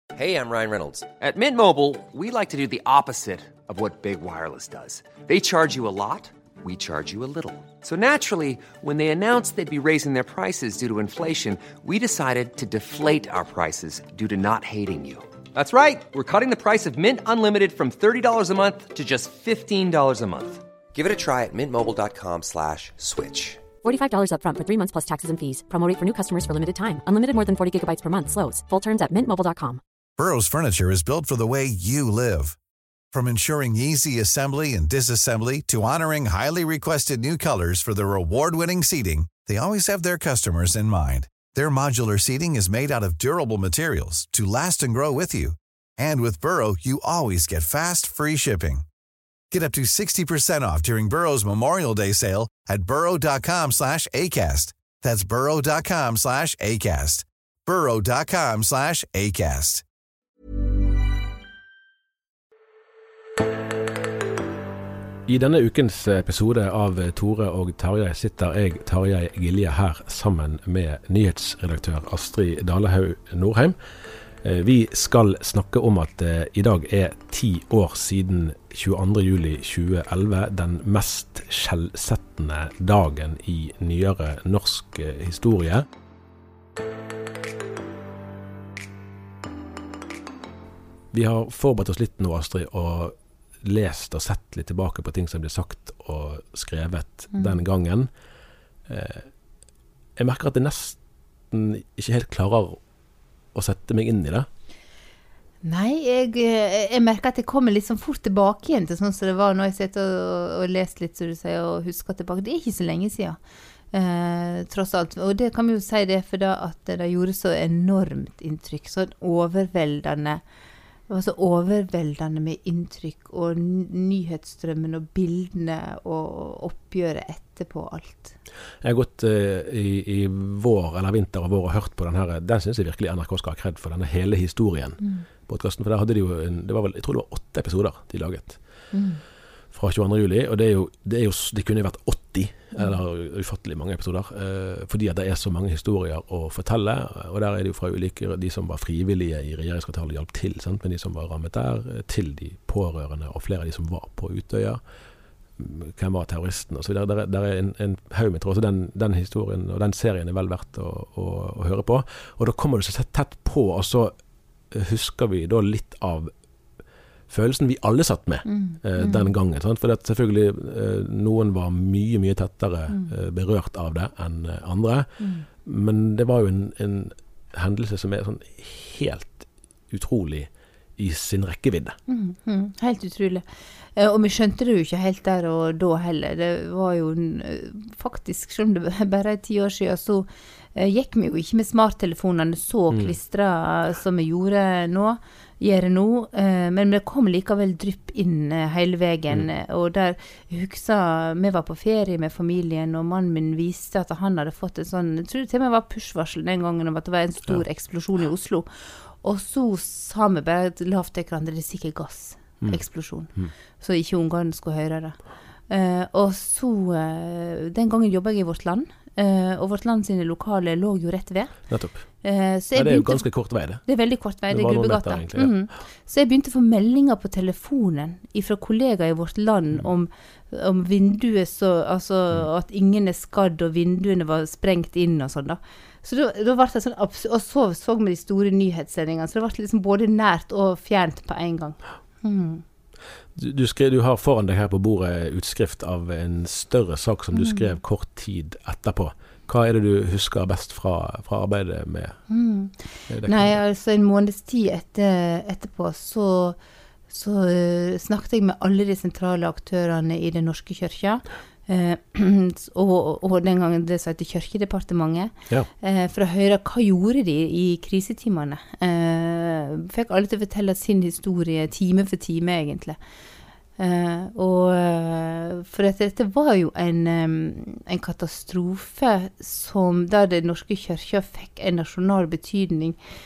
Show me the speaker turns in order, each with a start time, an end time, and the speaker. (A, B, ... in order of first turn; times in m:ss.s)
0:00.1-0:23.6 A
0:23.8-0:29.8 B
0:30.2-0:32.6 C
0:33.1-0:48.9 C
0:49.5-0:59.8 C
1:05.3-1:13.8 D
1:14.4-1:25.9 D
1:31.1-1:38.1 D
1:37.3-1:37.6 E
1:38.9-1:39.3 D
1:40.2-1:41.0 D
1:41.5-1:42.8 D
1:43.5-1:44.5 D
1:45.6-1:53.4 E
1:53.9-2:00.4 E
2:01.1-2:08.3 E
2:08.8-2:18.6 D
2:18.9-2:19.2 E
2:19.7-2:34.8 D
2:35.6-2:44.2 D
2:44.7-2:46.3 D
2:47.3-2:55.1 D
2:48.4-2:49.3 E
2:55.2-2:55.4 E
2:55.6-3:02.0 D
3:02.1-3:03.4 E
3:04.0-3:28.7 E
3:12.9-3:13.2 D
3:29.2-3:35.2 E
3:35.7-3:41.6 E
3:41.7-3:42.0 D
3:42.2-4:02.6 E
3:42.8-3:43.8 D
3:44.5-3:45.5 D
4:03.3-4:12.2 D
4:07.3-4:07.7 E
4:12.3-4:16.6 E
4:13.1-4:13.6 D
4:17.1-4:25.3 E
4:25.8-4:33.0 E
4:33.8-4:43.0 E